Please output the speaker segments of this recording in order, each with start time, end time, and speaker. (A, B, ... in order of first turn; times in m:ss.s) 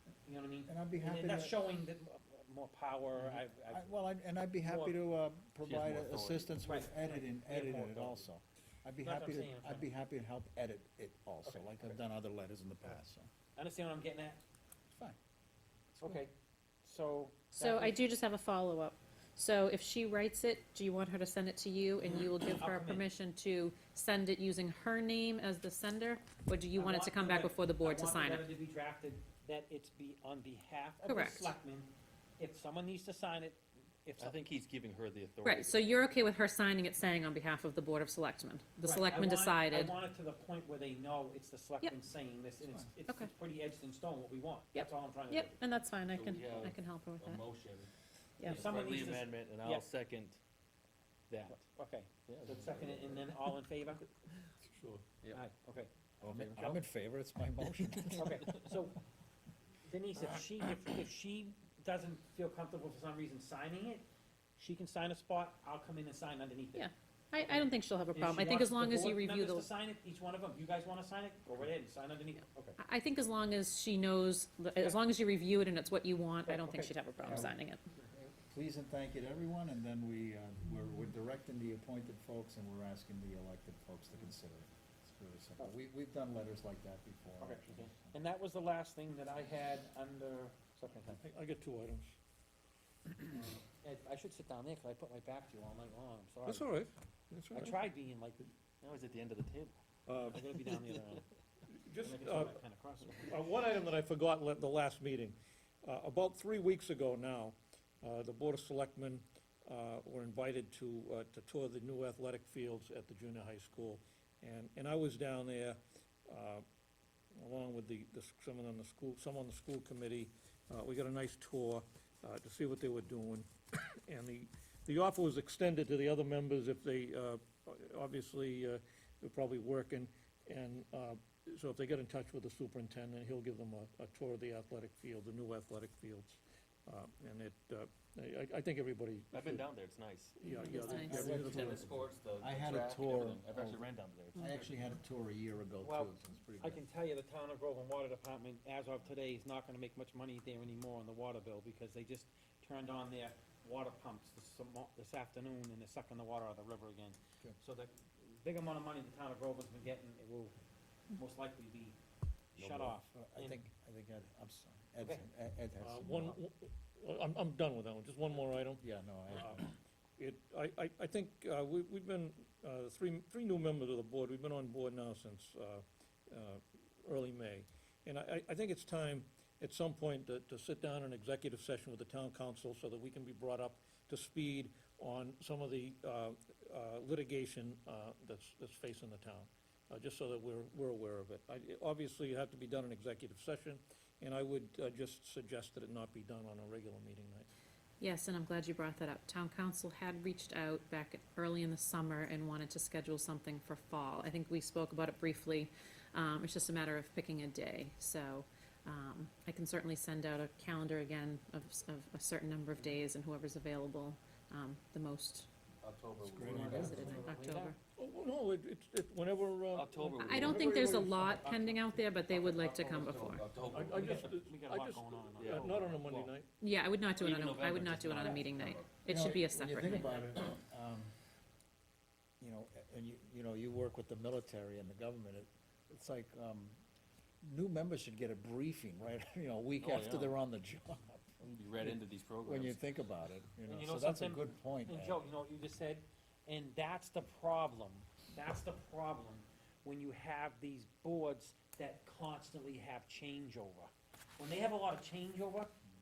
0:00.3-0:04.0 A
0:00.7-0:01.6 B
0:03.3-0:13.3 B
0:04.6-0:05.0 A
0:05.6-0:06.6 C
0:06.6-0:08.3 A
0:09.0-0:09.9 A
0:11.5-0:12.0 A
0:13.6-0:14.4 A
0:16.0-0:16.3 A
0:16.8-0:18.0 A
0:17.6-0:28.5 D
0:22.0-0:23.0 A
0:26.8-0:34.5 A
0:31.0-0:31.5 D
0:34.2-0:35.9 C
0:35.4-0:39.9 D
0:38.8-0:45.6 A
0:44.7-0:47.4 D
0:46.1-0:47.9 C
0:48.4-0:48.7 D
0:48.4-0:50.4 C
0:48.4-0:49.8 A
0:51.3-0:51.7 C
0:51.5-0:54.0 A
0:52.3-0:53.3 C
0:54.6-0:55.1 E
0:55.3-0:55.9 A
0:56.2-0:56.8 C
0:56.2-0:58.5 B
0:57.8-0:58.6 C
0:58.1-0:59.0 A
0:59.8-1:04.0 A
1:04.6-1:12.8 A
1:06.8-1:09.7 D
1:12.8-1:17.8 D
1:16.5-1:17.5 A
1:17.2-1:17.6 B
1:18.1-1:28.1 B
1:27.4-1:31.2 A
1:31.0-1:32.2 E
1:33.3-1:36.7 A
1:36.5-1:37.8 E
1:37.5-1:38.5 A
1:38.8-1:39.8 C
1:40.1-1:40.5 E
1:40.3-1:41.2 A
1:40.5-1:41.2 C
1:41.7-1:42.6 E
1:42.0-1:43.4 A
1:43.2-1:56.6 E
1:57.4-2:03.5 E
2:04.1-2:19.7 E
2:19.3-2:20.4 C
2:20.4-2:22.0 E
2:20.6-2:21.2 D
2:20.8-2:23.8 B
2:21.1-2:24.7 C
2:24.4-2:26.8 B
2:25.8-2:40.5 A
2:41.1-2:42.0 A
2:42.6-2:43.6 A
2:42.6-2:42.9 C
2:43.1-2:46.4 B
2:45.8-3:17.5 E
2:48.8-2:49.7 B
3:18.0-3:35.5 D
3:35.8-3:37.7 C
3:36.2-3:37.3 B
3:36.7-3:37.8 D
3:38.0-3:41.8 E
3:39.7-3:44.3 C
3:40.2-3:43.5 D
3:43.7-3:46.5 E
3:43.8-3:46.0 A
3:45.4-3:46.3 C
3:46.6-3:50.2 D
3:47.2-3:48.9 C
3:49.1-3:51.1 B
3:52.4-3:56.8 B
3:57.4-4:05.2 B
3:59.8-4:00.4 C
4:01.4-4:02.8 C
4:03.6-4:15.8 A